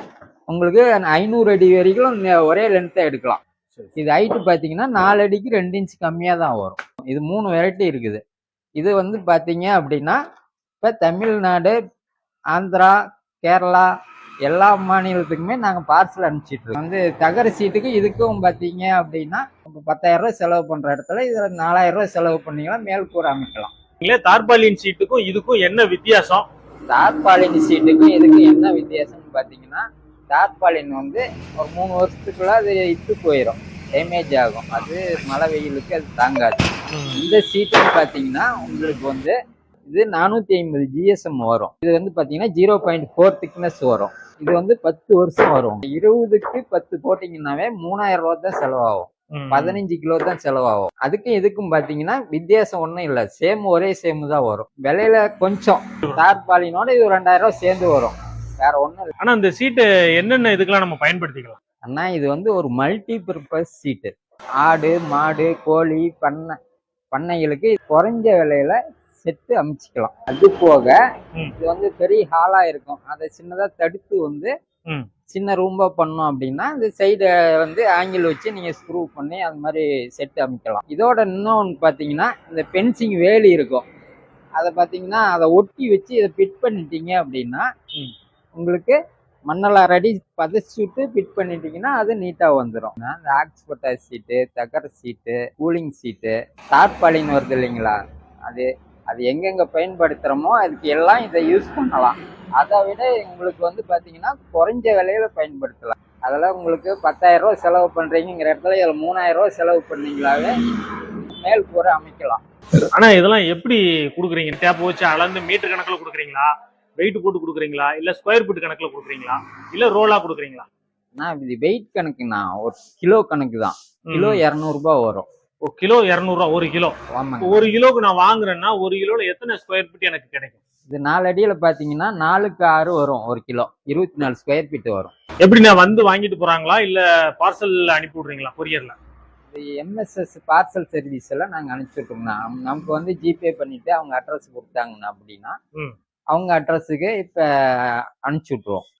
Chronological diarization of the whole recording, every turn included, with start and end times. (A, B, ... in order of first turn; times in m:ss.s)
0:00.5-0:03.4 A
0:04.0-0:08.2 A
0:08.8-0:10.2 A
0:10.8-0:11.8 A
0:12.5-0:13.9 A
0:14.4-0:23.7 A
0:24.0-0:26.5 B
0:26.9-0:36.7 A
0:36.9-0:37.2 B
0:37.2-0:39.3 A
0:39.9-0:59.1 A
0:49.3-0:49.8 B
0:59.2-1:01.6 B
1:01.8-1:06.6 A
1:07.1-1:11.0 A
1:11.6-1:14.5 A
1:15.3-1:23.8 A
1:24.6-1:27.6 A
1:28.6-1:29.0 A
1:29.5-1:38.0 A
1:38.5-1:50.5 A
1:51.3-1:52.4 A
1:52.9-2:00.7 B
2:01.2-2:05.2 A
2:04.1-2:04.4 B
2:05.6-2:10.6 B
2:07.1-2:07.7 A
2:10.9-2:15.1 A
2:15.4-2:19.0 B
2:19.5-2:25.5 A
2:26.3-2:28.8 A